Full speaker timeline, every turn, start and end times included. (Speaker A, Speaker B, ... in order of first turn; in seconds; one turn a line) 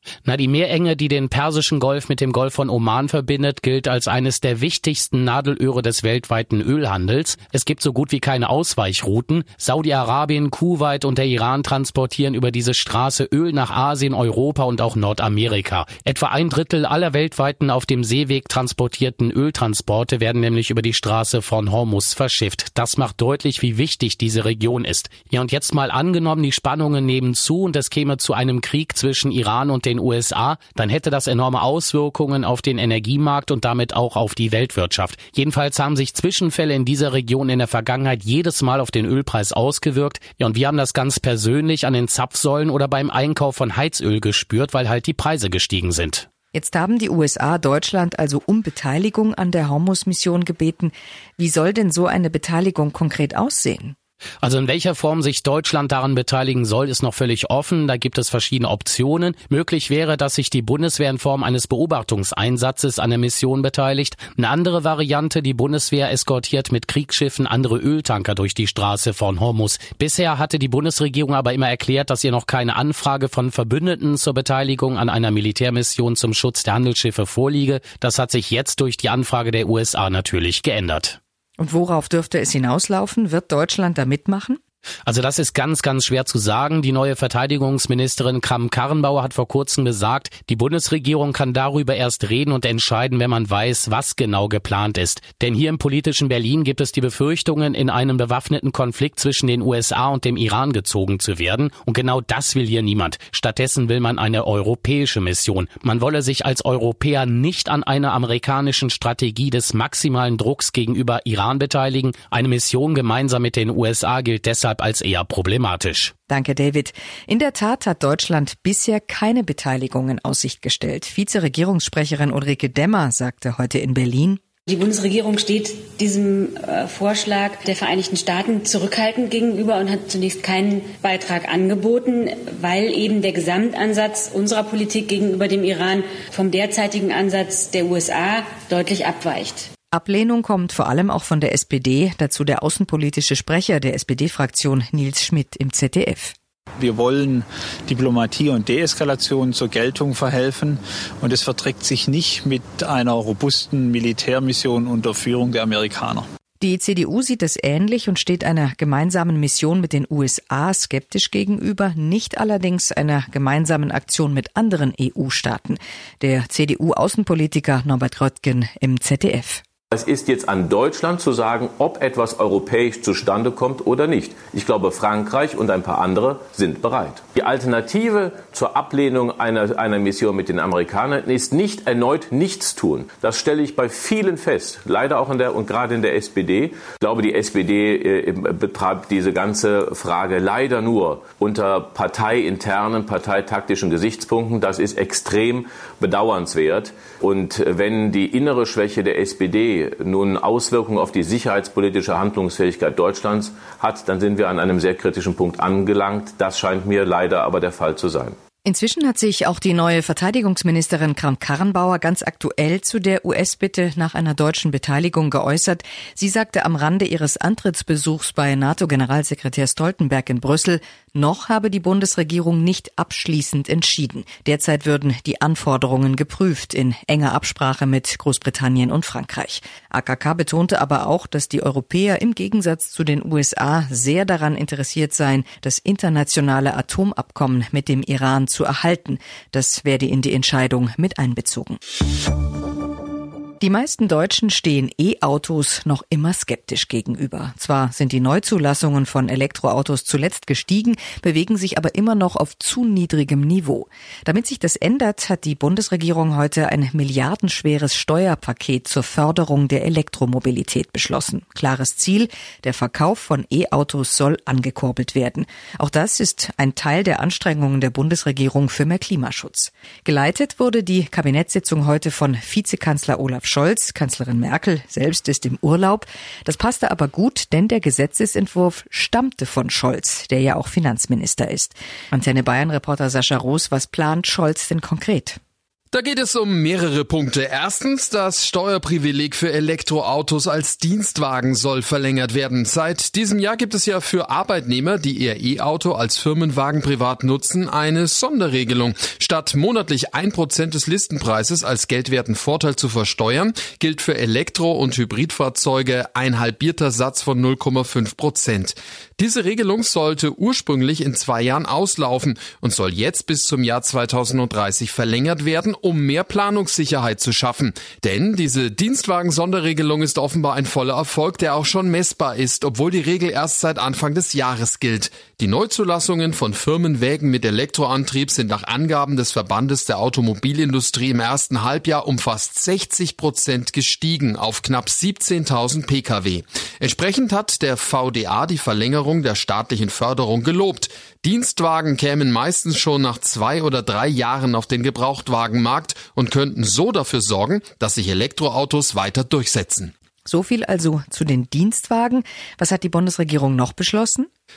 Speaker A: 0.2-46.2
Speaker B: 46.5-54.0
Speaker A: 54.4-81.2
Speaker B: 81.6-84.6
Speaker A: 85.0-116.1
Speaker B: 116.3-124.4
Speaker C: 124.7-139.7
Speaker B: 139.9-146.3
Speaker D: 146.8-156.2
Speaker B: 156.6-169.6
Speaker E: 169.9-208.4
Speaker B: 208.6-241.8
Speaker B: 243.6-285.4
Speaker F: 285.9-349.9
Speaker B: 350.2-354.3